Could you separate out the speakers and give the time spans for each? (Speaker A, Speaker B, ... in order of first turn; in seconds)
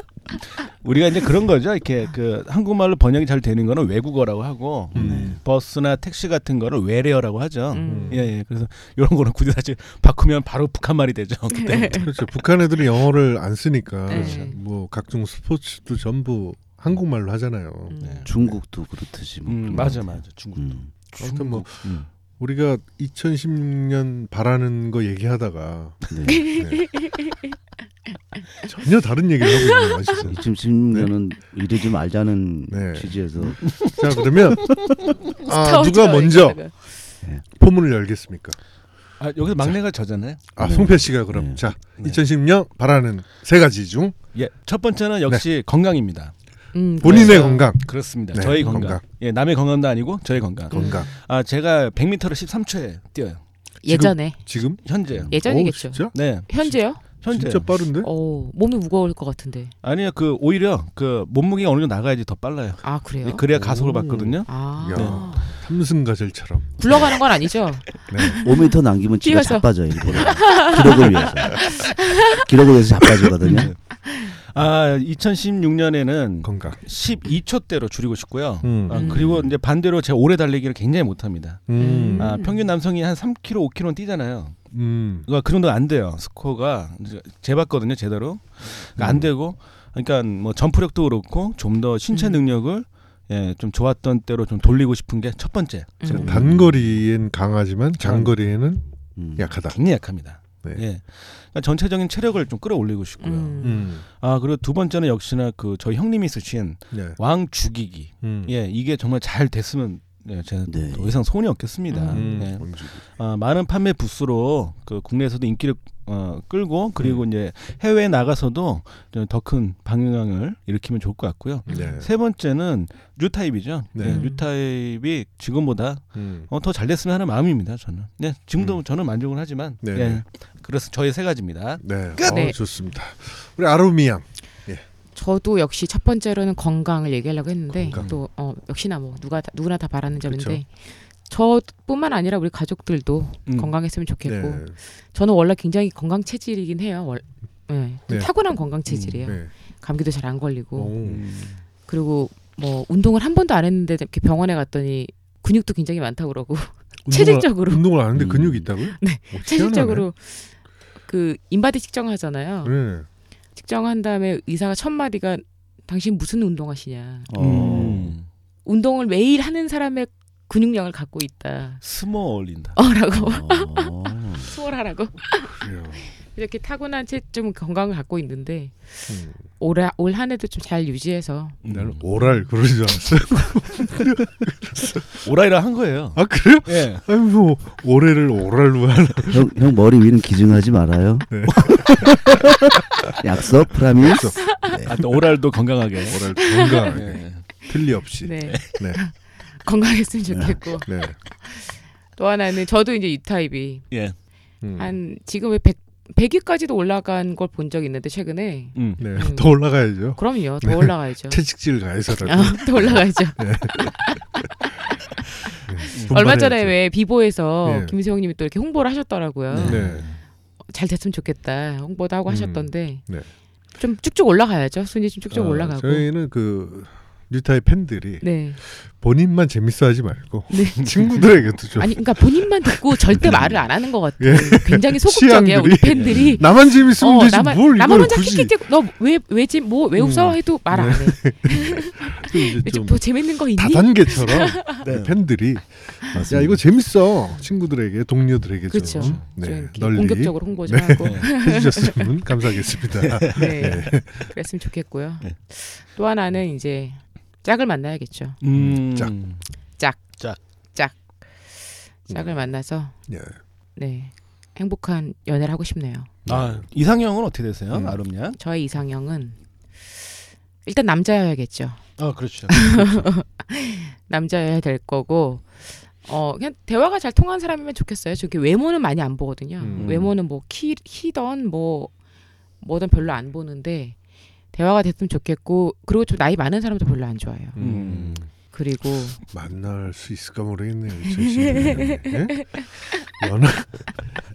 Speaker A: 0.8-12.3, 14.1-14.5, 18.0-18.3, 19.5-22.1, 33.7-35.1, 39.2-40.4, 44.3-46.3, 47.0-53.4, 54.8-55.3, 56.1-57.7, 59.8-65.5, 73.4-84.7, 85.3-96.5, 98.0-98.3, 99.7-132.4, 143.5-143.7, 148.9-149.3, 151.0-151.6, 167.4-168.3, 171.8-172.8, 181.6-182.3, 185.2-187.1, 191.5-192.0, 194.9-196.3, 196.9-197.5, 198.5-198.7, 208.8-209.1, 219.5-220.2, 235.9-236.3, 244.8-245.2, 248.8-249.2, 251.0-251.3, 252.9-253.8, 258.4-259.4, 266.3-268.4, 272.0-273.1, 279.8-280.1, 287.6-288.3
Speaker B: 4.9-5.4, 7.8-8.2, 11.9-18.6, 21.2-26.9, 28.6-31.1, 32.7-36.6, 37.5-38.6, 40.6-44.2, 47.0-49.0, 50.7-51.1, 53.9-56.2, 57.3-58.1, 63.5-67.2, 68.1-68.4, 76.5-76.8, 78.6-79.1, 81.7-82.4, 84.7-85.3, 96.1-98.8, 99.4-99.8, 103.6-104.0, 106.9-107.2, 108.2-108.5, 112.1-113.0, 121.7-122.1, 124.0-124.2, 126.2-126.5, 129.8-130.2, 131.8-134.8, 137.8-138.2, 140.2-140.6, 144.2-144.8, 150.8-151.2, 157.1-160.1, 162.6-163.1, 175.4-176.1, 179.1-179.4, 181.7-185.1, 186.2-189.5, 191.3-192.6, 194.0-194.4, 196.1-199.0, 200.8-201.2, 204.6-205.0, 209.0-214.5, 215.5-216.8, 217.6-217.9, 219.6-220.1, 222.3-223.3, 225.3-233.7, 234.2-238.6, 239.9-254.3, 258.5-259.1, 262.1-262.4, 263.1-263.4, 266.2-266.6, 267.7-268.0, 279.6-280.1, 287.6-288.2, 289.3-294.1
Speaker C: 4.9-5.4, 18.2-20.9, 26.1-26.5, 30.2-33.8, 40.6-41.7, 68.4-73.7, 79.1-79.6, 89.0-89.3, 96.1-97.0, 99.2-99.5, 110.7-111.2, 158.2-158.7, 167.3-168.2, 173.1-174.5, 189.3-191.6, 193.2-194.9, 200.3-200.6, 246.1-246.6
Speaker D: 7.7-8.2, 11.5-12.1, 14.1-14.6, 17.9-18.3, 26.3-27.6, 29.4-30.1, 35.5-36.7, 46.7-47.7, 50.7-51.0, 53.8-54.4, 55.3-57.0, 58.0-59.7, 62.8-63.5, 64.4-65.5, 66.8-72.5, 74.1-74.3, 78.9-79.2, 81.8-82.6, 92.1-92.4, 96.0-96.4, 103.2-103.9, 111.9-112.5, 121.7-122.0, 124.0-124.4, 132.2-132.6, 135.2-151.0, 151.9-157.9, 158.9-160.5, 161.1-162.7, 163.6-167.3, 168.7-171.8, 172.8-181.6, 194.4-194.8, 196.4-197.0, 198.2-203.9, 204.8-209.6, 210.1-211.5, 212.2-219.8, 220.7-223.0, 223.8-226.1, 228.2-228.6, 230.5-244.7, 248.7-252.1, 253.3-258.4, 259.8-260.0, 260.7-263.0, 263.8-266.1, 268.4-270.1, 270.6-271.8, 272.5-281.9, 282.6-284.0, 284.5-287.6, 288.5-289.2, 291.1-293.1